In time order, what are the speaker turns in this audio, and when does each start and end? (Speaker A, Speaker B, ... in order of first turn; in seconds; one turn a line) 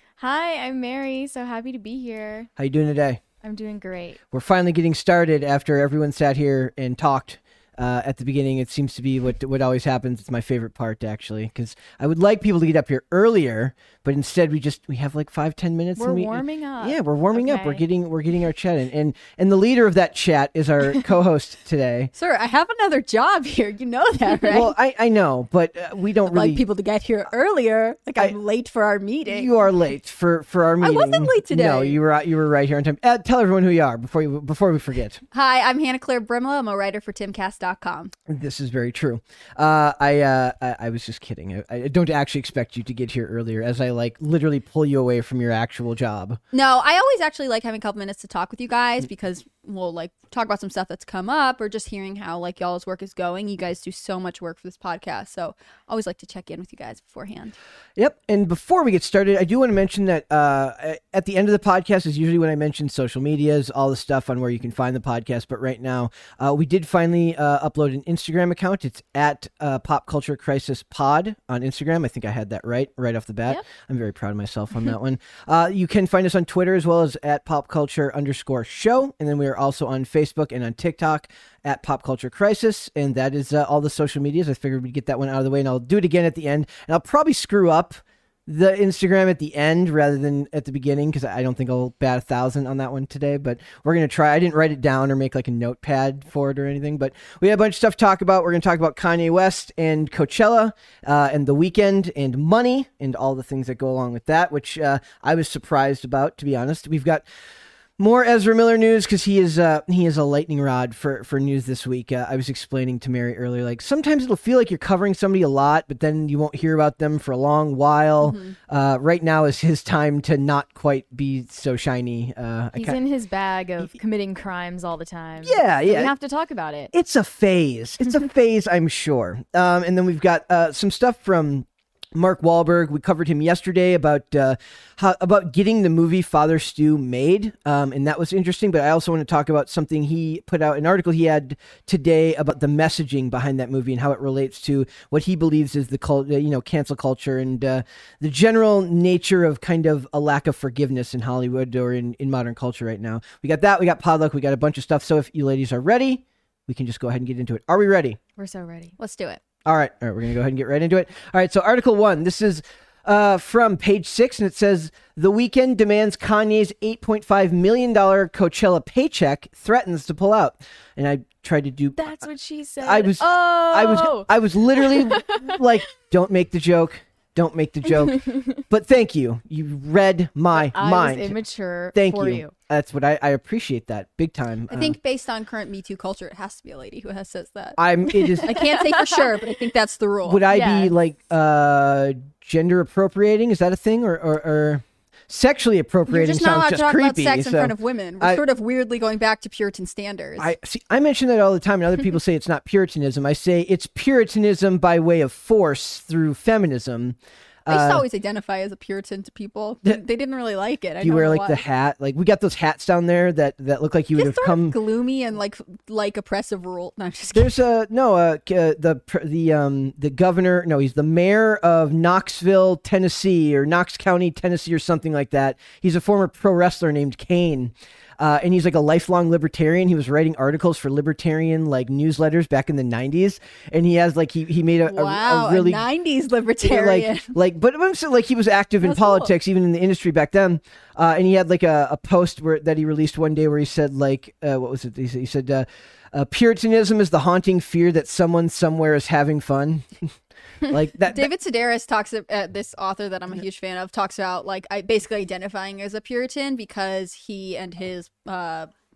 Speaker A: 0.2-2.5
Speaker B: 2.6-3.2
Speaker A: 3.4-4.2
Speaker B: 4.3-22.1
Speaker A: 16.0-17.8
Speaker C: 22.1-24.7
Speaker B: 24.5-26.6
Speaker C: 26.3-29.5
Speaker B: 29.3-35.2
Speaker C: 30.8-32.0
Speaker C: 35.3-38.1
Speaker B: 38.3-46.4
Speaker C: 46.5-57.6
Speaker B: 58.0-107.2
Speaker B: 108.0-123.0
Speaker C: 118.2-118.6
Speaker A: 122.8-126.9
Speaker B: 125.4-126.1
Speaker B: 126.9-158.2
Speaker A: 158.4-159.0
Speaker C: 159.0-159.4
Speaker B: 159.7-172.3
Speaker A: 172.0-175.9
Speaker B: 172.8-181.4
Speaker A: 178.1-178.6
Speaker A: 180.5-182.5
Speaker B: 181.9-184.9
Speaker C: 184.7-187.8
Speaker B: 187.8-188.7
Speaker A: 188.2-189.3
Speaker C: 188.4-190.4
Speaker B: 190.2-198.4
Speaker A: 190.5-190.9
Speaker C: 196.1-200.5
Speaker B: 200.4-208.0
Speaker C: 207.7-211.6
Speaker B: 211.0-214.8
Speaker C: 214.1-217.6
Speaker B: 217.3-235.8
Speaker C: 234.9-237.3
Speaker B: 236.6-250.2
Speaker C: 238.8-239.3
Speaker B: 250.7-251.3
Speaker C: 251.1-258.7